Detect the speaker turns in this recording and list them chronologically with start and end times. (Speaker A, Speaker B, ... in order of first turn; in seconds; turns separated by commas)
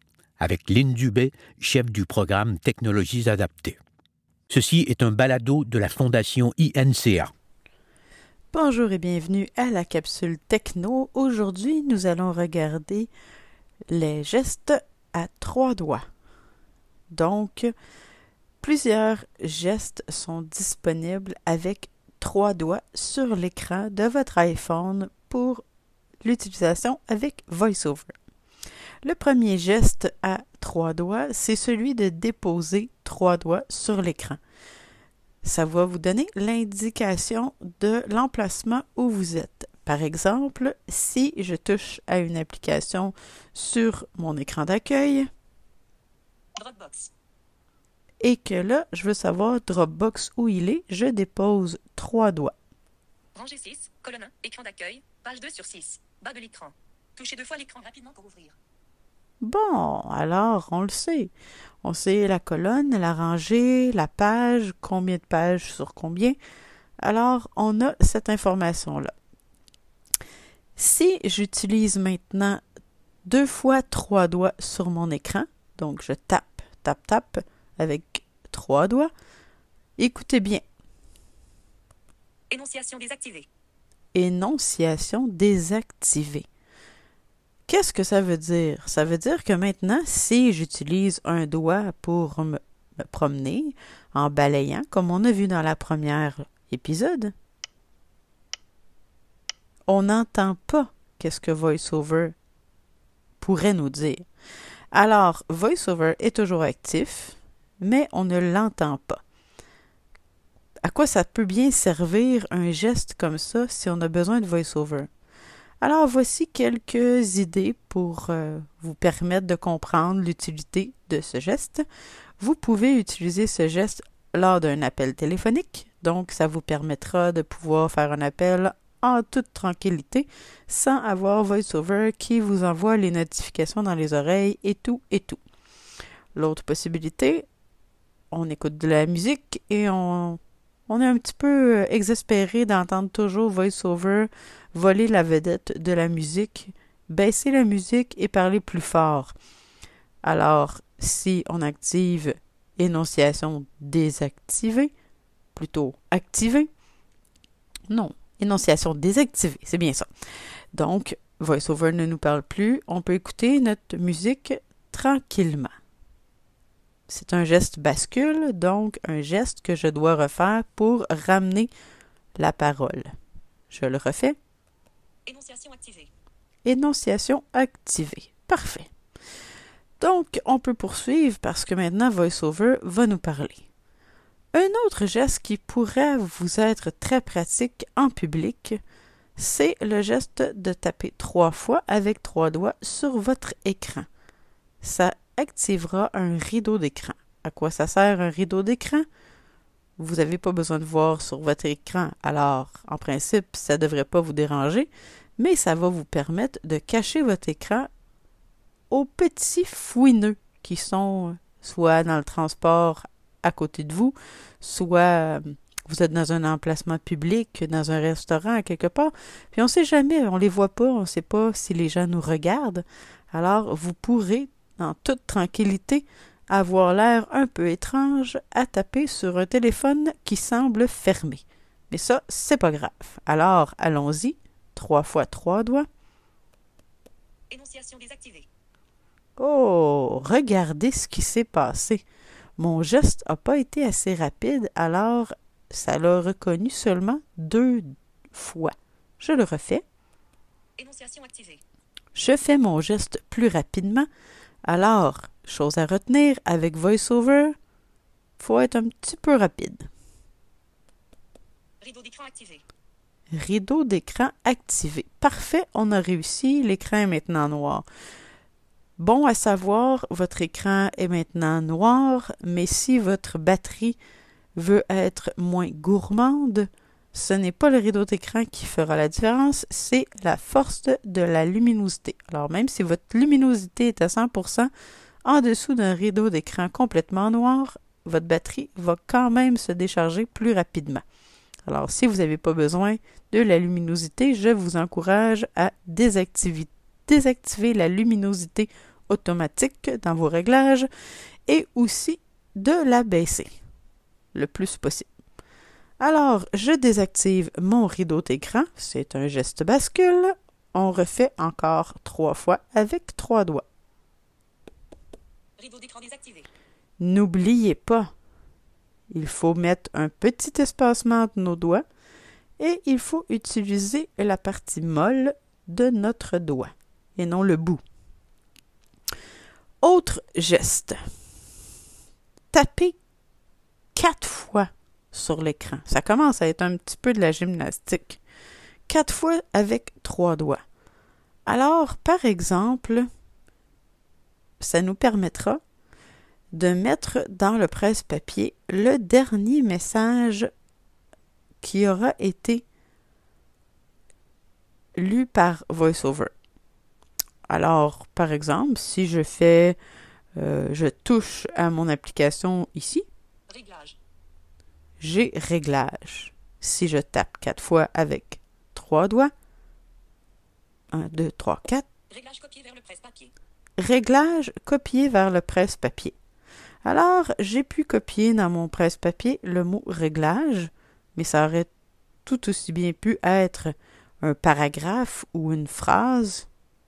Speaker A: 0.4-3.8, Speaker A: 4.5-7.3, Speaker B: 8.5-13.1, Speaker B: 13.9-16.0, Speaker B: 17.1-17.7, Speaker B: 18.6-25.6, Speaker B: 26.2-28.1, Speaker B: 29.0-34.4, Speaker B: 35.4-45.3, Speaker C: 46.5-47.1, Speaker B: 48.2-52.5, Speaker C: 53.3-58.5, Speaker B: 59.4-61.3, Speaker B: 61.8-66.3, Speaker B: 67.0-69.1, Speaker B: 70.8-72.6, Speaker B: 73.2-79.1, Speaker B: 80.0-80.6, Speaker C: 82.5-83.5, Speaker B: 84.1-86.5, Speaker B: 87.7-97.3, Speaker B: 99.9-102.3, Speaker B: 103.4-104.2, Speaker B: 104.9-109.2, Speaker B: 110.8-115.1, Speaker B: 115.8-121.8, Speaker B: 122.4-135.4, Speaker B: 136.3-137.5, Speaker B: 138.3-149.3, Speaker B: 150.2-154.9, Speaker B: 155.5-156.7, Speaker B: 157.9-160.1, Speaker B: 160.7-165.7, Speaker B: 167.1-171.7, Speaker B: 172.4-173.1, Speaker B: 173.7-174.4, Speaker C: 175.2-176.1, Speaker B: 176.6-178.9, Speaker B: 180.0-183.7, Speaker B: 184.5-188.8, Speaker B: 189.4-194.1, Speaker B: 194.8-199.1, Speaker B: 200.0-207.9, Speaker B: 208.9-235.8, Speaker C: 237.5-238.5, Speaker B: 239.4-242.0, Speaker B: 242.6-249.8, Speaker C: 250.8-251.6, Speaker B: 252.1-254.1, Speaker B: 254.7-257.5, Speaker B: 258.4-259.9, Speaker C: 261.8-262.6, Speaker B: 263.3-267.9, Speaker B: 269.0-274.0, Speaker B: 274.5-284.7, Speaker B: 285.2-291.0, Speaker B: 291.6-300.9, Speaker B: 301.5-303.5, Speaker B: 304.3-305.1, Speaker B: 306.0-313.6, Speaker C: 315.6-316.5, Speaker B: 317.0-318.1, Speaker B: 319.1-321.8, Speaker B: 322.6-327.8, Speaker B: 329.8-331.0, Speaker B: 332.5-333.0, Speaker B: 333.9-338.2, Speaker B: 338.9-340.6, Speaker B: 341.4-343.1, Speaker B: 344.6-345.6, Speaker B: 346.5-350.5, Speaker B: 351.6-352.6, Speaker B: 354.9-356.3, Speaker B: 357.5-359.8, Speaker B: 360.3-363.1, Speaker C: 363.5-364.0, Speaker B: 365.0-369.3, Speaker B: 370.9-371.9, Speaker C: 372.1-373.3, Speaker B: 373.8-376.1, Speaker B: 376.8-381.7, Speaker B: 382.2-386.5